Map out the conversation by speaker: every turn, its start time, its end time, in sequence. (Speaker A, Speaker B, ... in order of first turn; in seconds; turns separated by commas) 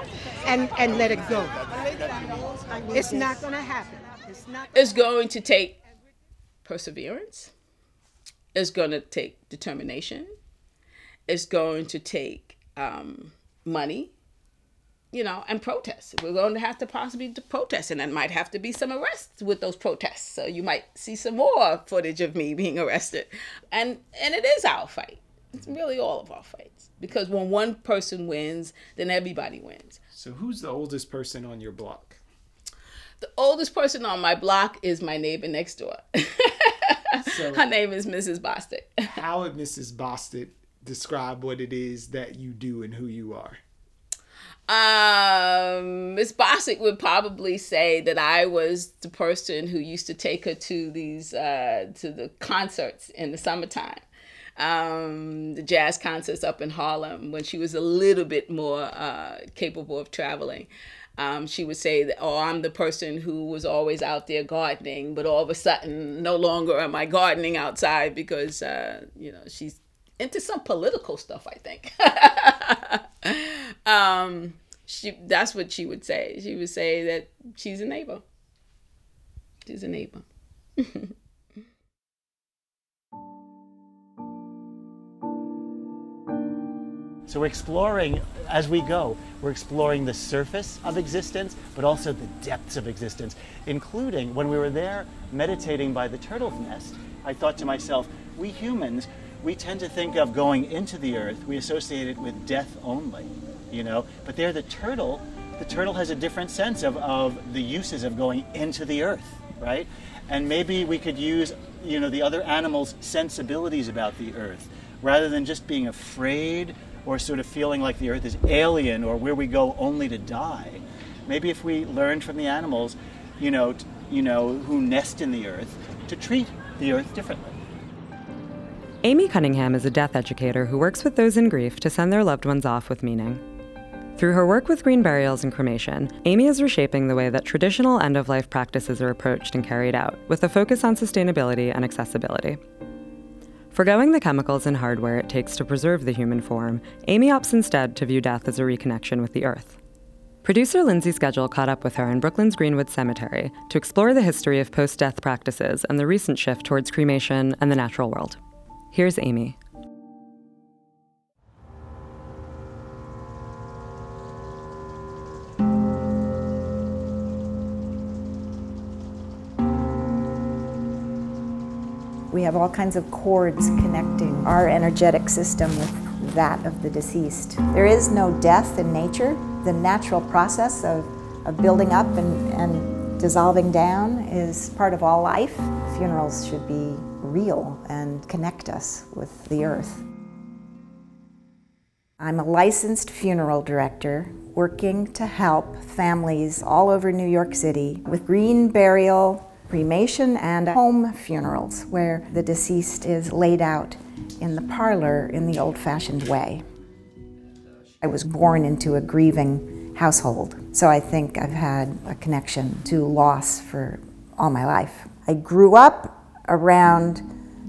Speaker A: 0.4-4.7, Speaker B: 4.7-5.8, Speaker B: 6.6-7.5, Speaker B: 8.5-10.3, Speaker B: 11.3-14.1, Speaker B: 15.1-30.0, Speaker C: 30.1-32.2, Speaker B: 33.2-39.0, Speaker C: 37.2-37.6, Speaker C: 39.1-43.6, Speaker B: 44.7-54.0, Speaker B: 54.6-78.2, Speaker B: 79.7-80.2, Speaker B: 80.8-81.1, Speaker D: 87.3-127.6, Speaker E: 129.0-133.4, Speaker E: 134.2-142.6, Speaker E: 143.7-149.8, Speaker E: 150.4-158.4, Speaker E: 158.9-159.6, Speaker F: 172.3-190.0, Speaker F: 192.2-206.6, Speaker F: 208.0-217.2